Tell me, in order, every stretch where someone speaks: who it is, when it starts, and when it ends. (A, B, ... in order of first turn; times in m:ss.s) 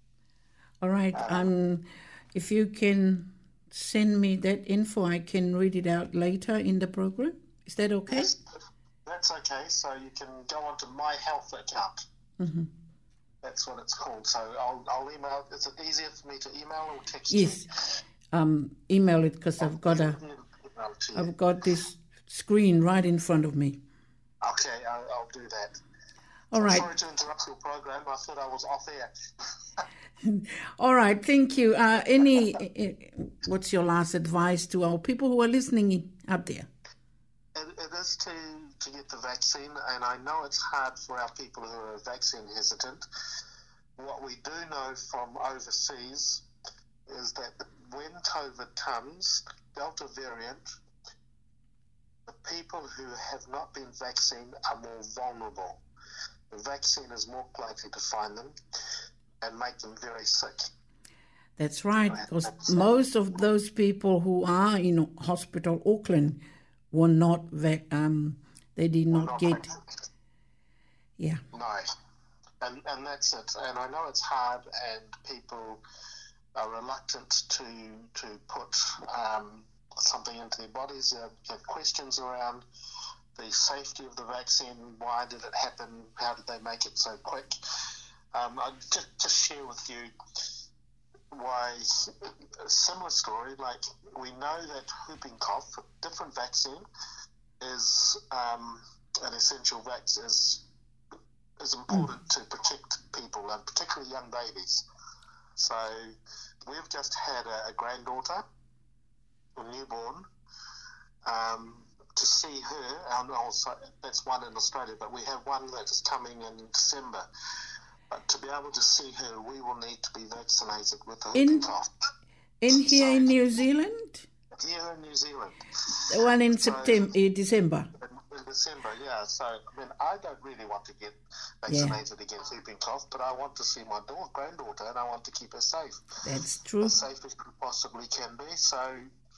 0:00.8-0:08.3 A
0:01.1-0:01.5 B
0:08.1-0:08.4 B
0:09.0-0:12.0 B
0:12.4-0:12.7 A
0:13.4-0:17.6 B
0:17.3-0:17.6 A
0:18.3-0:20.2 A
0:19.6-0:21.3 B
0:21.1-0:23.8 A
0:24.4-0:25.8 B
0:26.5-0:26.9 A
0:26.6-0:29.1 B
0:30.2-0:36.7 A
0:37.5-0:43.0 B
0:44.0-0:46.4 B
0:47.1-0:50.6 B
0:52.3-0:55.8 B
0:56.5-0:58.6 B
0:59.4-1:00.7 B
1:01.6-1:06.4 A
1:02.1-1:02.9 B
1:06.9-1:09.7 A
1:09.1-1:09.7 B
1:11.5-1:11.9 B
1:12.6-1:15.8 B
1:16.5-1:22.6 B
1:23.4-1:27.5 B
1:28.3-1:30.1 B
1:31.3-1:32.1 B
1:32.6-1:36.8 B
1:37.6-1:40.6 B
1:41.6-1:44.8 B
1:45.6-1:46.1 B
1:46.6-1:48.4 B
1:49.6-1:50.2 B
1:51.2-1:57.2 B
1:58.1-2:01.9 B
2:01.3-2:01.7 A
2:02.6-2:04.2 A
2:02.7-2:03.4 B
2:04.6-2:07.1 B
2:06.1-2:07.9 A
2:08.0-2:16.0 B
2:11.7-2:12.0 A
2:16.2-2:17.0 A
2:16.8-2:19.1 B